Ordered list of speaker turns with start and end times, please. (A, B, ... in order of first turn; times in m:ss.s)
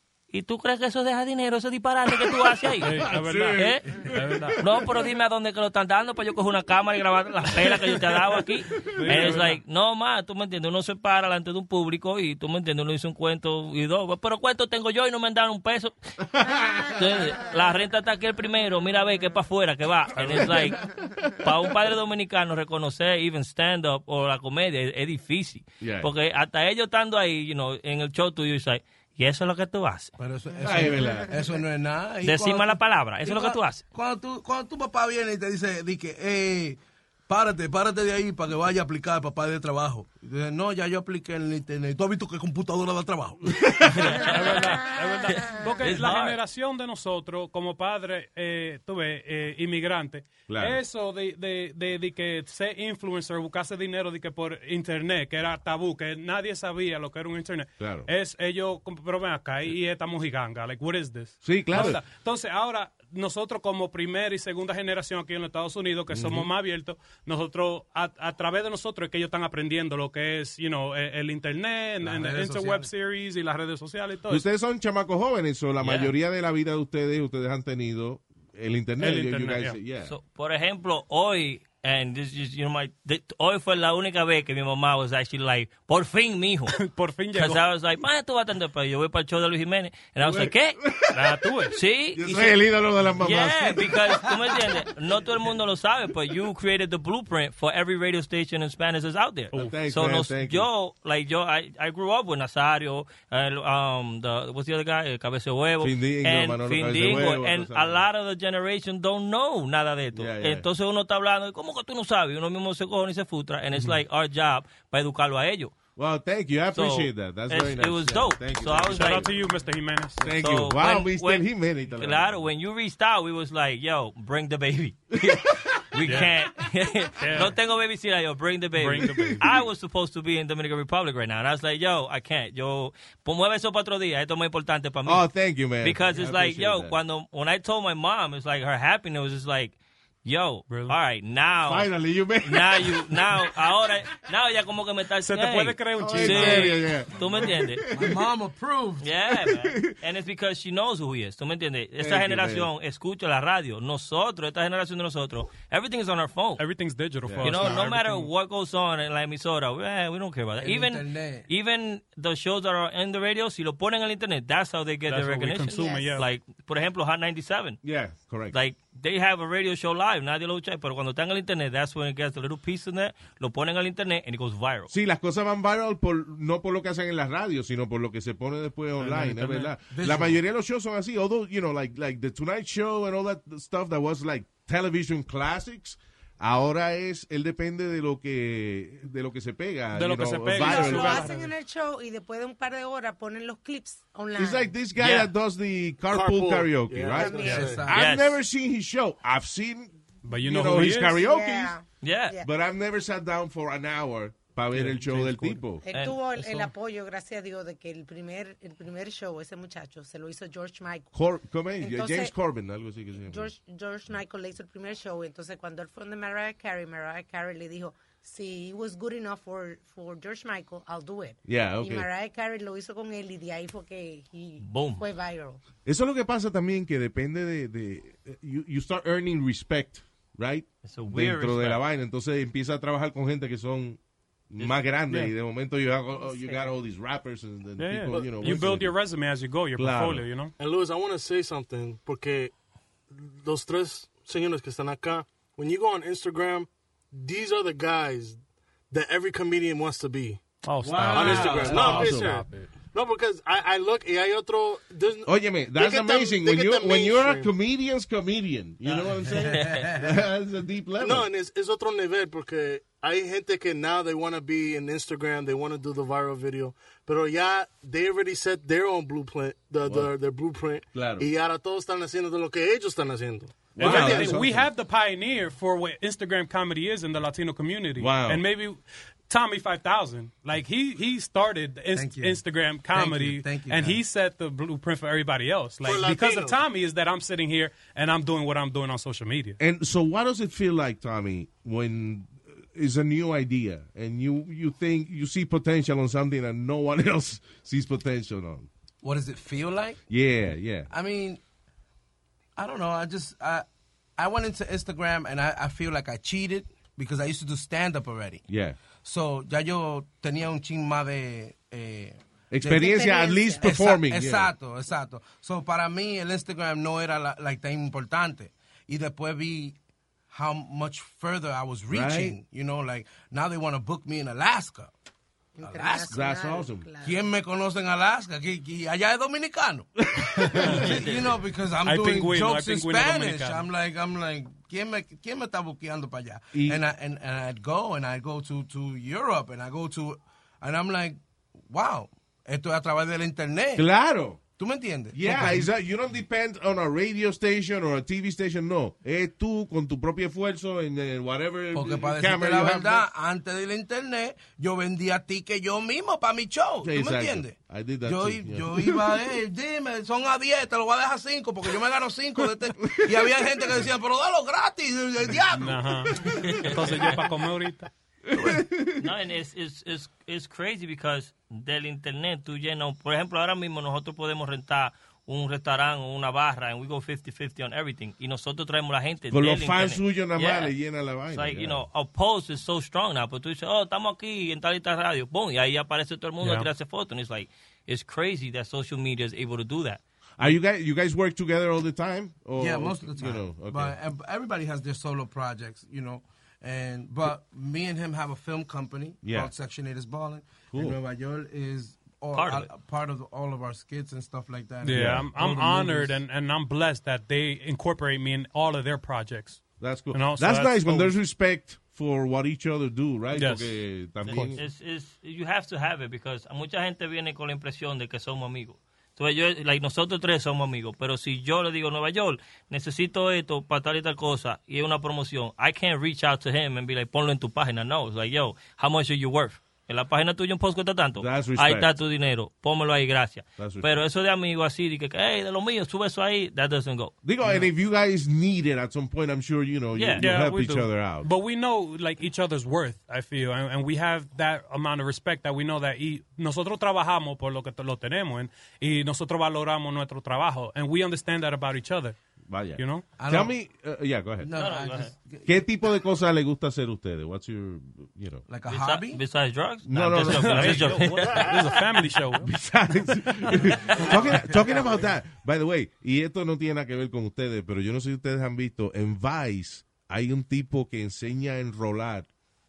0:00.3-0:03.8 A
0:02.1-0:05.1 B
0:02.8-0:04.6 C
0:04.6-0:16.0 A
0:07.5-0:09.4 B
0:08.9-0:09.6 C
0:16.2-0:17.4 B
0:16.9-0:20.8 A
0:20.1-0:21.5 B
0:21.4-0:30.1 A
0:25.8-0:26.1 B
0:30.2-0:44.4 D
0:30.6-0:31.3 B
0:32.2-0:33.8 A
0:44.0-0:44.4 A
0:44.2-1:14.4 C
0:45.3-0:46.4 A
0:50.5-0:50.8 B
0:57.8-0:58.1 B
1:01.4-1:02.0 B
1:06.1-1:06.5 B
1:12.0-1:12.9 D
1:14.3-1:20.1 B
1:15.8-1:16.1 A
1:19.0-1:19.8 C
1:20.0-1:26.8 A
1:26.7-1:27.6 C
1:27.3-1:30.8 A
1:30.2-1:31.3 B
1:31.1-1:31.8 C
1:31.7-1:32.6 A
1:32.1-1:34.0 B
1:33.2-1:55.7 A
1:39.5-1:40.7 B
1:45.8-1:48.0 B
1:50.1-1:50.6 B
1:56.0-1:59.4 B
1:56.7-1:59.3 A
1:58.9-2:00.2 C
2:00.2-2:02.4 B
2:00.4-2:15.2 A
2:05.1-2:06.6 B
2:07.2-2:07.5 C
2:08.8-2:09.4 C
2:09.0-2:09.7 B
2:15.0-2:17.0 B
2:15.8-2:21.9 A
2:20.7-2:20.9 C
2:21.6-2:23.7 B
2:22.4-2:27.8 A
2:25.2-2:26.8 C
2:26.0-2:28.2 B
2:27.9-2:29.1 D
2:29.0-2:36.6 A
2:29.2-2:29.9 B
2:32.0-2:32.7 B
2:36.6-2:38.3 C
2:37.3-2:37.8 B
2:37.4-2:47.8 A
2:40.6-2:41.5 D
2:45.1-2:46.2 C
2:45.7-2:46.2 E
2:47.8-2:48.6 B
2:48.5-2:54.9 A
2:54.9-3:11.3 B
2:59.0-2:59.7 C
2:59.9-3:00.4 D
3:09.9-3:11.5 C
3:10.5-3:14.7 E
3:14.4-3:21.7 B
3:15.0-3:15.3 A
3:16.1-3:17.8 F
3:17.2-3:17.7 E
3:17.4-3:17.8 C
3:17.5-3:18.0 D
3:17.9-3:18.4 A
3:20.2-3:21.1 C
3:20.6-3:22.4 E
3:22.0-3:22.4 A
3:22.4-3:25.8 B
3:24.7-3:25.6 C
3:25.8-3:31.1 E
3:25.9-3:26.2 A
3:26.3-3:26.7 D
3:31.1-3:33.5 B
3:31.8-3:32.3 E
3:33.3-3:45.6 E
3:41.5-3:42.1 B
3:44.6-3:45.0 A
3:45.8-3:54.0 B
3:50.8-3:51.8 A
3:54.5-3:59.0 B
3:56.2-3:56.6 A
3:57.8-4:00.5 C
3:58.1-3:58.7 F
3:59.8-4:00.3 B
4:00.6-4:02.5 F
4:03.1-4:08.4 F
4:08.9-4:10.4 F
4:10.6-4:12.7 C
4:10.8-4:12.4 B
4:11.0-4:17.5 F
4:15.2-4:21.3 B
4:19.3-4:19.7 A
4:19.4-4:20.2 D
4:21.0-4:34.4 F
4:29.8-4:30.1 B
4:30.9-4:31.3 B
4:33.7-4:34.7 B
4:33.8-4:49.6 C
4:38.0-4:38.4 B
4:41.9-4:42.4 D
4:42.9-4:44.0 D
4:45.8-4:46.6 F
4:49.6-4:58.7 B
4:59.0-5:00.0 D
5:00.1-5:00.9 B
5:00.9-5:01.4 D
5:02.6-5:03.6 D
5:04.2-5:08.4 D
5:08.5-5:08.8 B
5:09.0-5:12.9 D
5:12.5-5:14.5 B
5:12.7-5:13.6 E
5:13.6-5:19.8 D
5:20.3-5:24.9 D
5:21.9-5:22.4 B
5:25.6-5:27.2 E
5:25.6-5:26.3 D
5:26.1-5:26.9 B
5:27.0-5:43.9 D
5:30.0-5:31.2 B
5:30.4-5:31.0 C
5:31.8-5:33.6 C
5:36.5-5:36.8 B
5:43.8-5:44.4 B
5:44.6-5:45.7 D
5:45.1-5:53.0 B
5:51.7-6:06.7 D
5:56.8-5:59.4 B
6:02.8-6:03.4 B
6:05.5-6:07.9 C
6:06.4-6:06.8 A
6:08.3-6:09.1 B
6:09.0-6:20.7 A
6:19.3-6:21.8 B
6:21.3-6:30.0 A
6:26.4-6:26.7 C
6:30.4-6:33.9 B
6:32.6-6:46.2 D
6:39.2-6:39.5 B
6:40.7-6:41.0 B
6:42.3-6:42.7 A
6:44.8-6:51.1 C
6:44.9-6:45.3 B
6:49.8-6:54.6 B
6:53.3-6:54.6 C
6:54.3-7:17.1 A
7:11.2-7:11.9 B
7:13.6-7:13.9 B
7:17.2-7:21.3 B
7:19.9-7:20.3 A
7:20.2-7:32.2 C
7:32.5-7:34.5 B
7:32.8-7:33.0 C
7:33.2-7:33.5 D
7:34.4-7:35.6 D
7:34.6-7:35.1 A
7:35.4-7:38.4 B
7:38.5-7:39.2 D
7:38.7-7:41.5 A
7:39.9-7:41.1 B
7:40.2-7:42.5 C
7:41.3-7:41.7 F
7:42.4-7:52.3 B
7:43.5-7:44.0 C
7:44.0-7:45.1 D